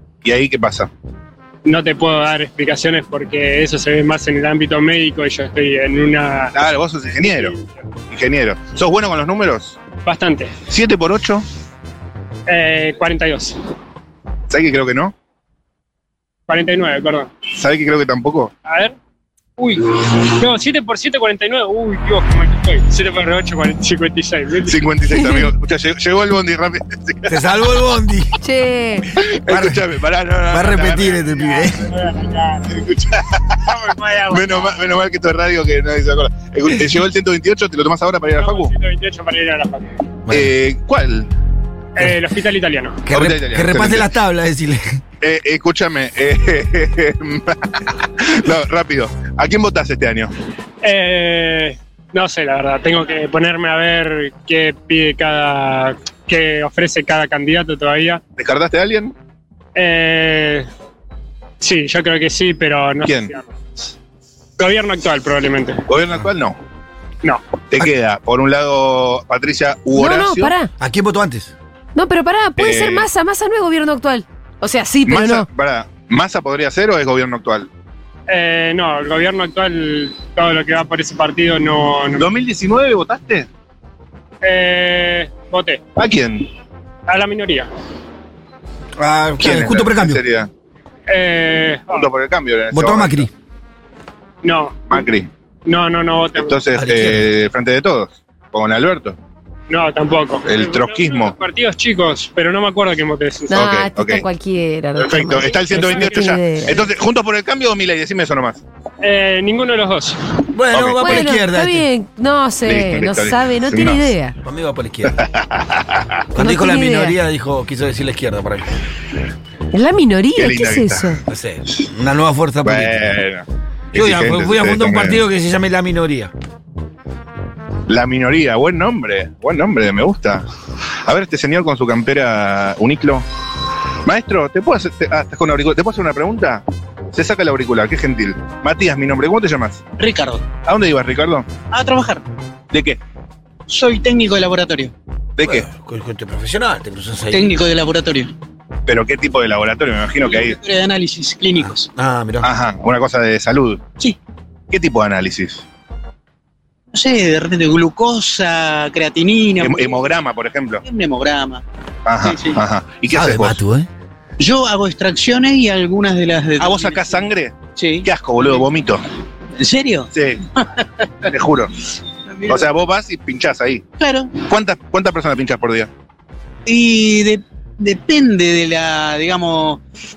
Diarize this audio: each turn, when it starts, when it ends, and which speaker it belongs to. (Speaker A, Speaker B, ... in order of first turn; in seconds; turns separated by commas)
Speaker A: 0.2-0.9, Speaker B: 1.6-6.6, Speaker A: 6.5-7.5, Speaker B: 7.2-7.7, Speaker A: 8.1-9.8, Speaker B: 10.1-10.6, Speaker A: 10.7-11.4, Speaker B: 12.5-13.6, Speaker A: 14.5-15.1, Speaker B: 16.5-17.3, Speaker A: 17.5-18.5, Speaker B: 18.6-19.0, Speaker B: 19.6-24.9, Speaker A: 24.7-27.4, Speaker C: 25.1-25.5, Speaker D: 27.3-28.3, Speaker C: 28.4-29.1, Speaker A: 29.3-31.2, Speaker D: 29.5-29.8, Speaker D: 30.5-31.9, Speaker B: 31.2-32.8, Speaker A: 32.7-33.7, Speaker B: 33.7-34.8, Speaker A: 34.3-38.7, Speaker B: 38.3-40.1, Speaker D: 40.3-40.5, Speaker A: 40.3-41.3, Speaker B: 42.0-43.1, Speaker D: 43.1-45.0, Speaker A: 43.1-44.1, Speaker A: 45.2-50.3, Speaker B: 50.8-58.2, Speaker A: 58.4-59.1, Speaker B: 59.8-60.7, Speaker B: 61.6-63.9, Speaker A: 63.0-63.3, Speaker B: 64.6-65.8, Speaker A: 65.9-66.6, Speaker A: 67.7-70.5, Speaker C: 69.9-70.7, Speaker D: 70.8-71.5, Speaker C: 72.0-75.5, Speaker A: 72.6-73.1, Speaker A: 75.1-77.7, Speaker B: 78.3-82.3, Speaker A: 82.2-83.5, Speaker B: 84.4-85.8, Speaker A: 86.0-86.5, Speaker B: 87.1-87.7, Speaker D: 89.0-90.2, Speaker A: 89.4-90.5, Speaker B: 91.1-92.1, Speaker A: 91.9-93.3, Speaker D: 92.7-93.3, Speaker B: 94.4-95.0, Speaker A: 94.9-95.3, Speaker B: 95.7-96.6, Speaker A: 96.3-99.2, Speaker D: 96.8-97.3, Speaker B: 99.7-103.5, Speaker A: 100.5-101.3, Speaker C: 103.5-106.9, Speaker A: 103.5-104.2, Speaker A: 105.0-108.6, Speaker B: 105.7-106.2, Speaker B: 109.0-110.2, Speaker D: 110.5-111.9, Speaker A: 110.7-111.2, Speaker C: 111.0-114.4, Speaker A: 112.7-114.1, Speaker D: 114.4-115.2, Speaker A: 115.1-116.2, Speaker D: 116.3-118.7, Speaker C: 116.4-117.2, Speaker C: 119.7-121.2, Speaker A: 120.4-121.2, Speaker D: 121.3-123.0, Speaker A: 122.6-125.2, Speaker D: 123.9-126.3, Speaker A: 127.9-130.5, Speaker A: 131.1-133.2, Speaker A: 134.1-139.8, Speaker E: 140.0-140.5, Speaker A: 140.6-141.5, Speaker E: 141.7-142.2, Speaker A: 142.7-143.0, Speaker E: 143.7-144.9, Speaker A: 145.4-145.7, Speaker D: 145.4-147.5, Speaker E: 147.3-148.3, Speaker A: 148.9-150.6, Speaker E: 150.2-151.9, Speaker D: 151.6-152.5, Speaker A: 152.4-153.8, Speaker A: 154.7-155.6, Speaker E: 156.9-160.1, Speaker A: 159.6-160.8, Speaker E: 160.8-161.6, Speaker A: 162.1-163.6, Speaker E: 162.2-162.6, Speaker D: 163.1-163.9, Speaker E: 164.4-168.6, Speaker A: 166.6-169.0, Speaker E: 169.6-170.1, Speaker A: 170.1-170.4, Speaker A: 171.3-171.7, Speaker E: 172.3-172.7, Speaker A: 172.5-173.8, Speaker E: 174.0-174.4, Speaker A: 174.4-175.9, Speaker E: 176.7-179.8